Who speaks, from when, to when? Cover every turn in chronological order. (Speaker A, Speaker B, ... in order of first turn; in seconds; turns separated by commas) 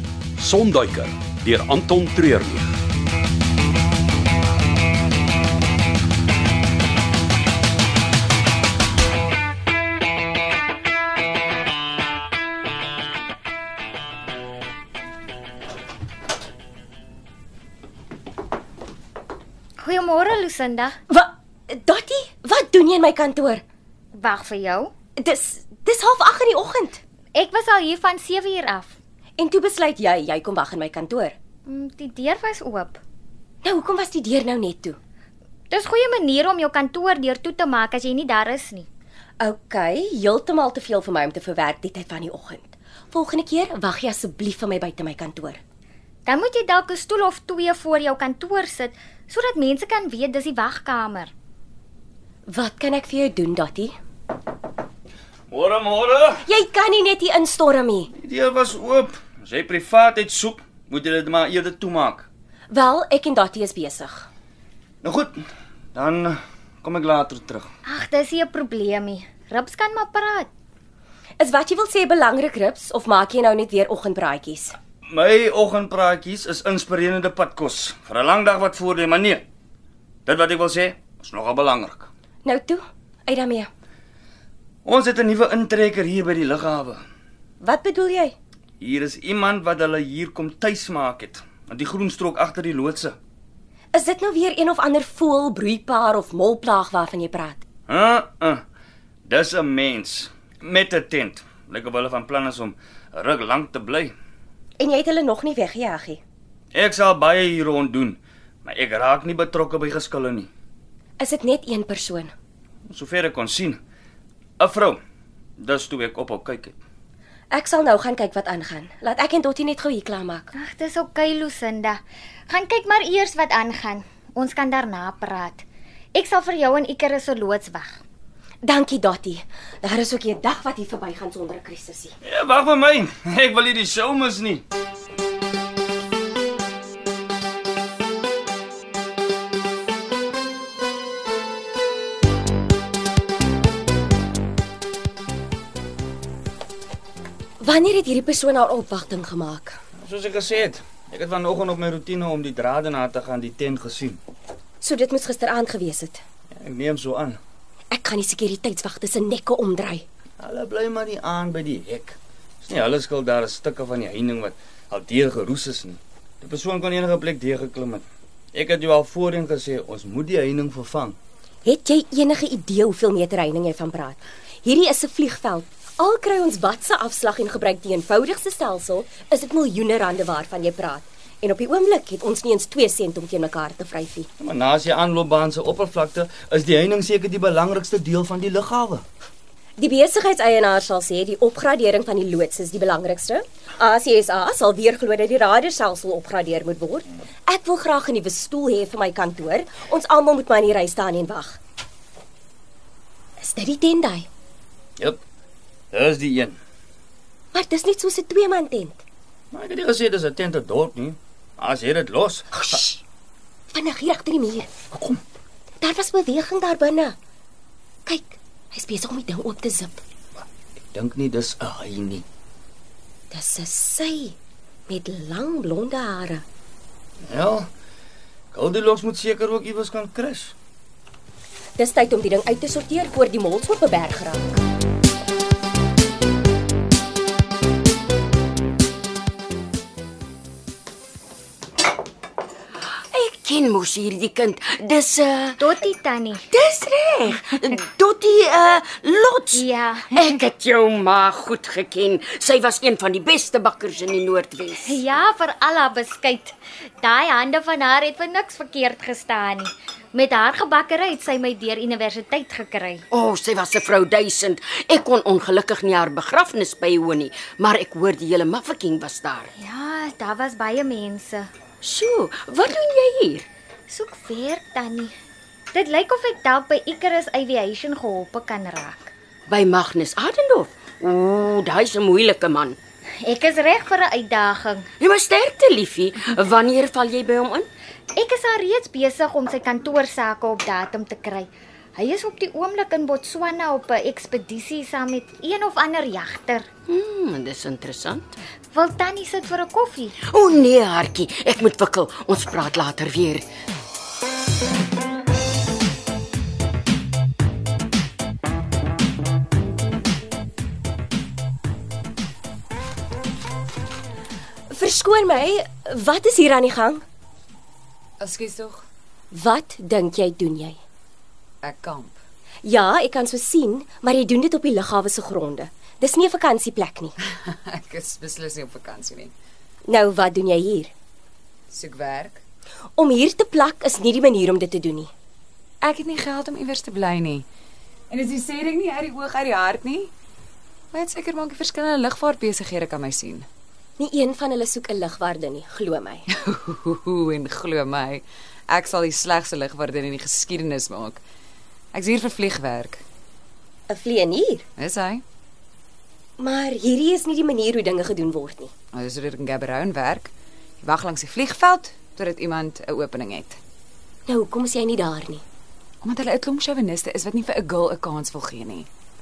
Speaker A: 0.4-2.7, Speaker B: 19.8-21.0, Speaker C: 21.1-23.6, Speaker B: 24.1-24.9, Speaker C: 25.2-27.0, Speaker B: 27.4-29.0, Speaker C: 29.4-31.4, Speaker B: 31.7-33.0, Speaker C: 33.6-35.0, Speaker B: 35.7-38.9, Speaker C: 39.4-45.6, Speaker B: 46.3-51.3, Speaker C: 52.5-53.9, Speaker D: 55.5-56.4, Speaker C: 56.5-58.1, Speaker D: 58.1-62.3, Speaker C: 62.7-64.3, Speaker D: 65.0-65.4, Speaker D: 66.0-67.7, Speaker B: 67.8-70.5, Speaker C: 71.4-74.8, Speaker D: 75.1-79.4, Speaker D: 80.3-82.1, Speaker C: 82.5-83.7, Speaker D: 84.9-87.0, Speaker C: 87.6-88.3, Speaker D: 88.8-93.2, Speaker C: 93.9-97.6, Speaker D: 97.9-98.6, Speaker D: 99.3-104.1, Speaker C: 104.8-106.2, Speaker D: 106.7-110.5, Speaker C: 111.2-112.3, Speaker D: 112.9-113.8, Speaker D: 114.6-115.0, Speaker D: 115.6-116.8, Speaker C: 117.5-120.5, Speaker B: 120.5-128.0, Speaker C: 128.6-132.2, Speaker D: 132.2-134.6, Speaker C: 147.6-149.8, Speaker D: 150.0-154.2, Speaker C: 154.8-156.2, Speaker D: 156.6-157.4, Speaker C: 157.9-160.1, Speaker D: 160.4-171.2, Speaker C: 171.7-184.3, Speaker D: 184.4-189.0, Speaker C: 189.8-201.6, Speaker C: 203.4-204.3, Speaker D: 205.9-206.6, Speaker C: 207.5-209.0, Speaker D: 209.5-212.5, Speaker C: 212.6-213.0, Speaker C: 213.7-214.7, Speaker D: 214.9-215.2, Speaker C: 215.8-217.2, Speaker C: 218.1-220.0, Speaker D: 220.9-222.2, Speaker C: 223.3-224.4, Speaker C: 224.9-226.4, Speaker D: 227.3-227.7, Speaker D: 228.5-230.6, Speaker C: 231.8-234.6, Speaker E: 243.1-245.7, Speaker B: 245.6-246.5, Speaker E: 246.5-255.0, Speaker B: 249.5-250.4, Speaker B: 254.8-263.1, Speaker E: 263.1-269.5, Speaker B: 269.6-271.5, Speaker E: 271.8-273.5, Speaker B: 273.9-275.1, Speaker B: 275.7-279.1, Speaker E: 279.5-282.8, Speaker B: 283.2-284.9, Speaker E: 285.0-287.7, Speaker B: 288.2-296.7, Speaker E: 296.9-298.4, Speaker B: 298.7-300.2, Speaker E: 300.3-303.5, Speaker C: 314.7-317.0, Speaker F: 318.2-318.9, Speaker C: 319.3-320.8, Speaker F: 321.6-322.2, Speaker C: 322.6-327.1, Speaker F: 327.3-329.3, Speaker C: 329.9-330.9, Speaker F: 331.7-332.4, Speaker C: 333.0-335.1, Speaker F: 335.8-337.5, Speaker F: 338.1-340.1, Speaker F: 340.9-343.5, Speaker C: 344.0-346.2, Speaker F: 346.3-351.2, Speaker F: 351.9-353.0, Speaker C: 353.9-354.6, Speaker F: 354.8-355.2, Speaker C: 356.4-358.7, Speaker F: 358.9-363.6, Speaker C: 364.3-365.4, Speaker F: 366.0-368.9